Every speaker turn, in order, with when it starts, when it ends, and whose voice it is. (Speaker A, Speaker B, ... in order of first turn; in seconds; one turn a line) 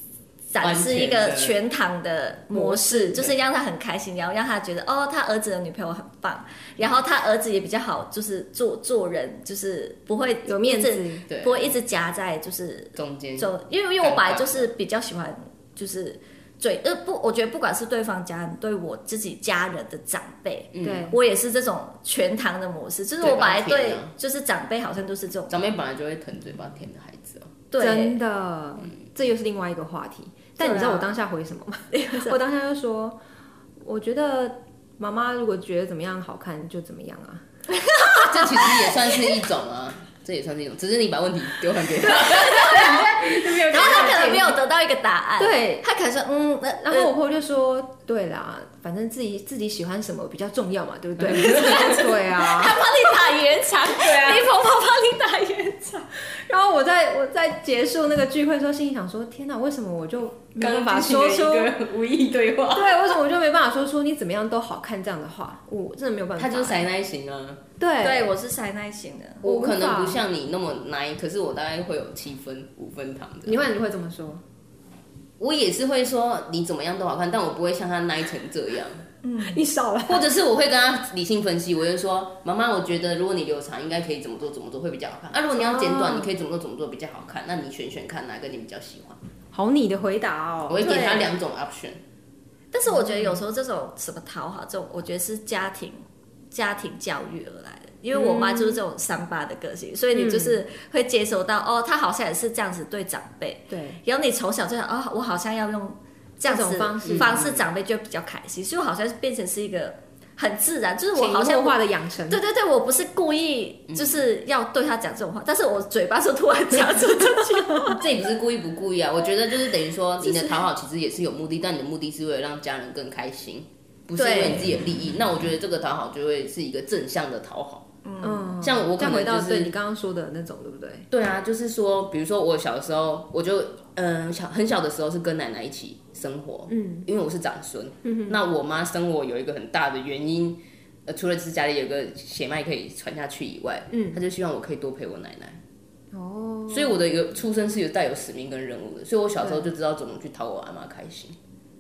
Speaker A: 0.5-25.6
Speaker B: 0.6-1.6
Speaker C: 2.5-3.3
Speaker C: 10.4-11.3
Speaker B: 11.3-11.8
Speaker B: 12.9-14.7
Speaker B: 20.7-21.1
Speaker C: 20.8-21.2
Speaker B: 23.2-24.1
Speaker B: 25.5-27.5
Speaker A: 27.7-28.2
Speaker C: 27.8-33.2
Speaker A: 30.6-31.2
Speaker A: 31.9-32.4
Speaker C: 33.8-37.4
Speaker A: 37.7-38.8
Speaker B: 38.1-44.6
Speaker A: 42.0-47.1
Speaker C: 42.0-43.1
Speaker C: 43.7-44.3
Speaker C: 45.4-52.8
Speaker B: 51.3-51.9
Speaker A: 51.4-56.1
Speaker B: 53.9-54.5
Speaker C: 56.3-61.7
Speaker B: 60.6-63.1
Speaker C: 62.7-66.8
Speaker B: 66.4-67.6
Speaker C: 67.8-68.3
Speaker A: 68.0-69.4
Speaker B: 69.4-73.6
Speaker C: 69.4-70.2
Speaker C: 73.5-74.4
Speaker B: 75.4-79.1
Speaker A: 79.2-79.7
Speaker C: 79.4-80.2
Speaker B: 80.1-89.2
Speaker C: 85.6-86.3
Speaker C: 89.5-91.3
Speaker B: 90.7-92.0
Speaker A: 92.7-118.0
Speaker C: 92.9-93.4
Speaker C: 98.1-98.8
Speaker C: 100.1-100.6
Speaker C: 103.7-104.0
Speaker C: 106.5-107.4
Speaker B: 107.0-107.7
Speaker C: 111.2-112.4
Speaker B: 113.9-114.2
Speaker B: 118.0-127.9
Speaker A: 120.2-120.6
Speaker A: 124.2-124.7
Speaker A: 128.1-128.5
Speaker C: 128.2-131.1
Speaker B: 128.6-129.7
Speaker B: 131.1-145.6
Speaker C: 136.7-137.1
Speaker C: 138.0-138.4
Speaker C: 143.9-144.2
Speaker C: 146.1-147.0
Speaker B: 146.7-151.4
Speaker C: 149.4-149.7